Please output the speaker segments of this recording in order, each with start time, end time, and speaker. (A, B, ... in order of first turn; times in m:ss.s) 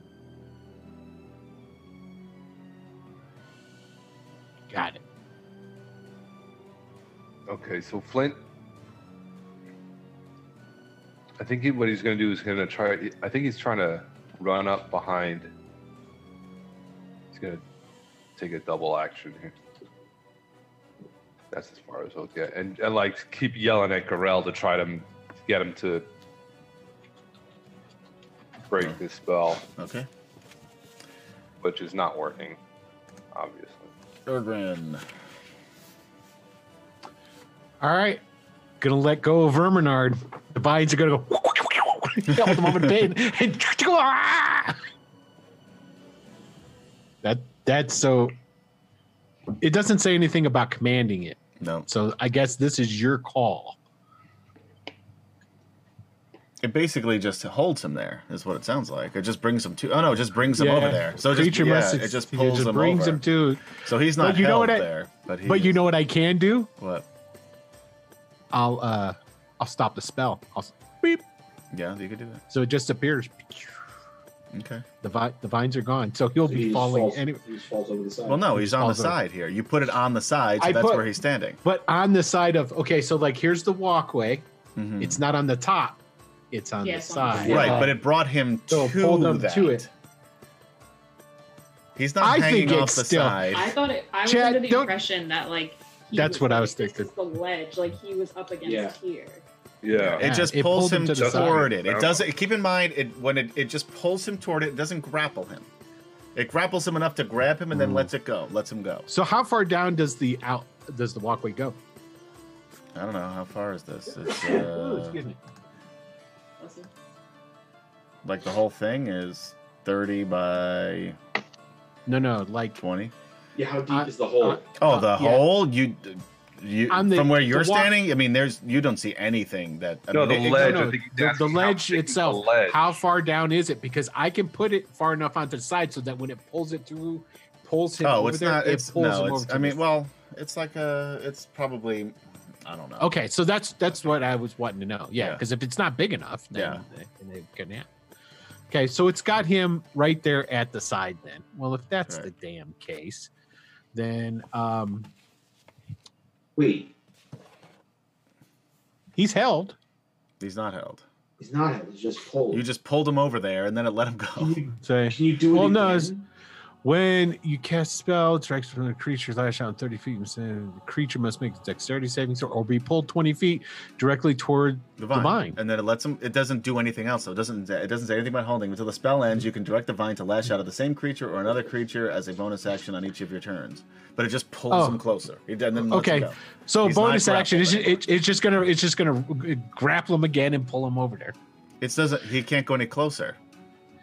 0:04.7-0:05.0 A
0:07.5-0:08.4 B
0:11.4-0:15.5 B
0:17.3-0:17.6 B
0:18.4-0:19.6 B
0:21.5-0:26.1 B
0:28.7-0:29.6 B
0:29.7-0:30.1 C
0:31.6-0:32.6 B
0:33.3-0:33.9 B
0:34.3-0:35.0 C
0:37.8-0:38.2 A
0:38.8-0:44.8 A
0:42.4-0:42.9 C
0:47.2-0:48.3 A
0:49.6-0:53.8 A
0:51.6-0:51.9 C
0:56.6-1:05.8 C
1:00.5-1:04.9 A
1:05.4-1:06.7 A
1:06.8-1:07.1 C
1:08.5-1:11.2 A
1:11.7-1:12.4 C
1:12.5-1:13.8 A
1:14.5-1:14.8 C
1:15.0-1:17.4 A
1:16.5-1:18.4 D
1:18.2-1:21.6 C
1:18.5-1:19.2 A
1:20.6-1:21.1 A
1:21.6-1:24.5 A
1:24.8-1:25.2 C
1:25.0-1:26.0 A
1:26.5-1:27.9 A
1:26.8-1:27.9 E
1:27.4-1:27.9 D
1:27.4-1:29.9 C
1:28.7-1:29.9 A
1:32.0-1:33.8 C
1:32.2-1:33.5 A
1:33.5-1:39.4 E
1:34.2-1:34.9 A
1:36.1-1:37.1 A
1:38.6-1:39.0 D
1:39.8-1:40.2 B
1:40.0-1:45.7 C
1:40.2-1:41.7 A
1:41.2-1:42.2 B
1:46.4-1:49.1 C
1:47.7-1:48.1 A
1:49.1-1:51.8 A
1:53.0-1:55.2 C
1:54.1-1:55.4 A
1:56.6-1:56.9 E
1:58.2-2:01.2 C
2:02.1-2:02.8 A
2:02.8-2:03.1 C
2:03.6-2:04.7 D
2:03.9-2:05.5 A
2:04.8-2:10.9 C
2:06.9-2:07.9 A
2:10.1-2:13.0 B
2:10.3-2:19.8 A
2:18.0-2:23.1 C
2:23.0-2:27.9 A
2:23.9-2:24.2 C
2:25.2-2:25.4 C
2:26.5-2:26.8 C
2:28.7-2:33.3 A
2:33.9-2:35.1 A
2:36.6-2:36.9 D
2:39.2-2:39.8 A
2:40.4-2:41.0 C
2:41.4-2:42.6 D
2:42.5-2:44.6 C
2:44.4-2:46.3 D
2:44.8-2:46.1 A
2:46.8-2:55.6 A
2:55.0-3:08.0 C
3:04.7-3:05.0 A
3:05.8-3:11.4 A
3:11.8-3:13.4 C